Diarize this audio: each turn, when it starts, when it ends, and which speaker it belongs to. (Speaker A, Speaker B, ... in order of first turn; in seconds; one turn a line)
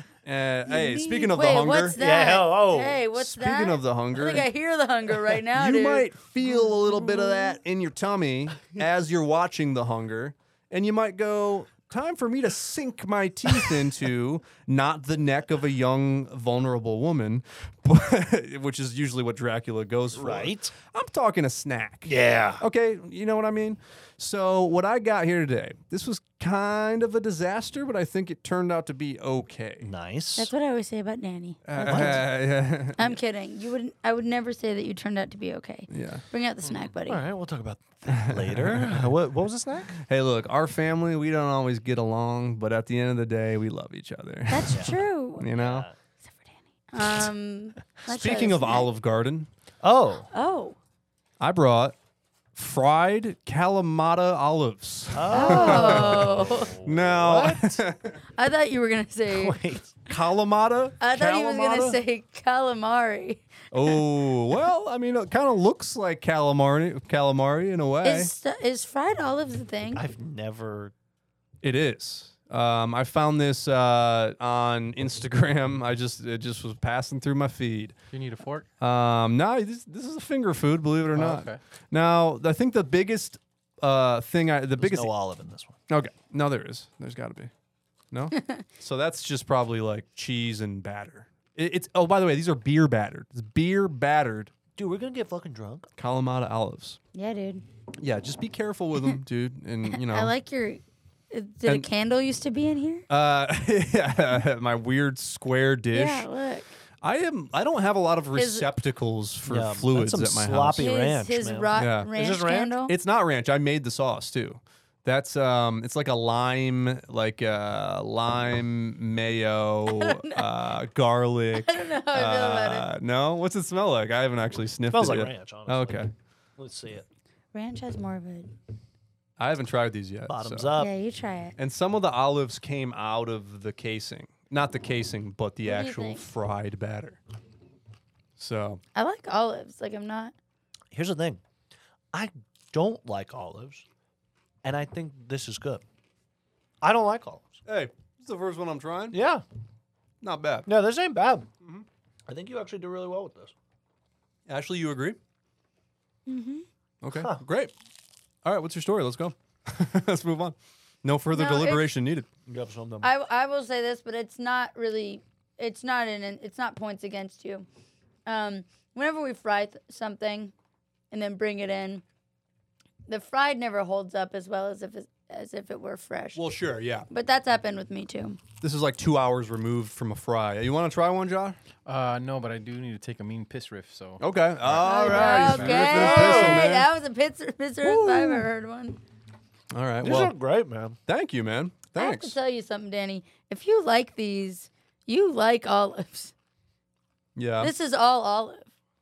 Speaker A: 0.2-2.0
Speaker B: 0.7-1.3
Speaker C: 0.8-6.1
Speaker B: 1.9-3.0
Speaker A: 3.1-4.5
Speaker A: 5.5-29.9
Speaker C: 6.9-7.5
Speaker B: 20.1-20.8
Speaker B: 22.1-22.6
Speaker B: 29.8-30.5
Speaker C: 30.4-32.2
Speaker A: 31.6-33.2
Speaker B: 31.8-32.2
Speaker C: 33.0-37.2
Speaker A: 35.9-36.2
Speaker B: 37.1-40.0
Speaker A: 38.1-39.1
Speaker A: 40.0-45.9
Speaker C: 44.5-45.5
Speaker B: 44.7-45.0
Speaker B: 45.5-46.0
Speaker C: 46.9-48.9
Speaker A: 48.1-49.5
Speaker B: 49.8-50.3
Speaker C: 50.3-50.8
Speaker A: 51.4-52.0
Speaker A: 52.5-58.2
Speaker B: 55.1-57.8
Speaker C: 55.3-56.7
Speaker C: 58.4-59.6
Speaker B: 59.3-60.0
Speaker A: 60.1-61.0
Speaker C: 61.0-64.0
Speaker B: 61.1-62.0
Speaker A: 63.7-68.3
Speaker C: 68.0-70.0
Speaker B: 70.0-70.9
Speaker A: 71.6-78.0
Speaker D: 78.1-78.7
Speaker A: 78.8-85.1
Speaker D: 81.2-81.6
Speaker B: 84.8-85.8
Speaker A: 85.9-87.5
Speaker A: 88.1-94.5
Speaker C: 88.4-88.6
Speaker B: 94.8-95.9
Speaker A: 96.0-97.0
Speaker C: 97.1-97.6
Speaker A: 98.0-100.3
Speaker C: 99.8-103.1
Speaker A: 103.1-106.3
Speaker C: 105.9-106.8
Speaker A: 107.0-110.9
Speaker C: 108.3-108.7
Speaker B: 109.5-112.8
Speaker C: 110.8-112.9
Speaker A: 111.8-112.1
Speaker A: 112.9-126.1
Speaker C: 119.9-120.5
Speaker C: 121.5-122.9
Speaker B: 124.9-127.0
Speaker C: 127.5-128.5
Speaker A: 129.4-130.7
Speaker B: 130.3-130.9
Speaker C: 130.8-131.6
Speaker A: 131.6-137.2
Speaker C: 135.6-136.3
Speaker A: 138.4-138.8
Speaker C: 138.9-140.3
Speaker B: 140.9-141.4
Speaker B: 142.1-143.8
Speaker B: 144.6-145.8
Speaker B: 146.8-147.6
Speaker A: 147.7-149.2
Speaker B: 149.1-149.4
Speaker A: 150.2-150.7
Speaker B: 150.7-151.5
Speaker B: 152.3-153.5
Speaker A: 154.5-155.2
Speaker C: 156.3-156.7
Speaker A: 157.0-157.7
Speaker B: 157.1-157.4
Speaker A: 158.4-162.3
Speaker C: 161.3-161.9
Speaker B: 162.5-163.1
Speaker C: 163.0-167.7
Speaker C: 168.3-170.5
Speaker C: 171.1-172.0
Speaker C: 173.1-176.4
Speaker A: 176.3-177.1
Speaker C: 177.1-178.4
Speaker A: 178.6-181.6
Speaker D: 181.9-184.2
Speaker A: 184.2-186.9
Speaker C: 184.8-189.0
Speaker B: 184.8-186.7
Speaker A: 187.8-188.4
Speaker A: 189.7-190.3
Speaker B: 190.0-191.0
Speaker A: 191.1-192.4
Speaker C: 192.0-196.3
Speaker A: 197.4-197.7
Speaker C: 197.6-198.7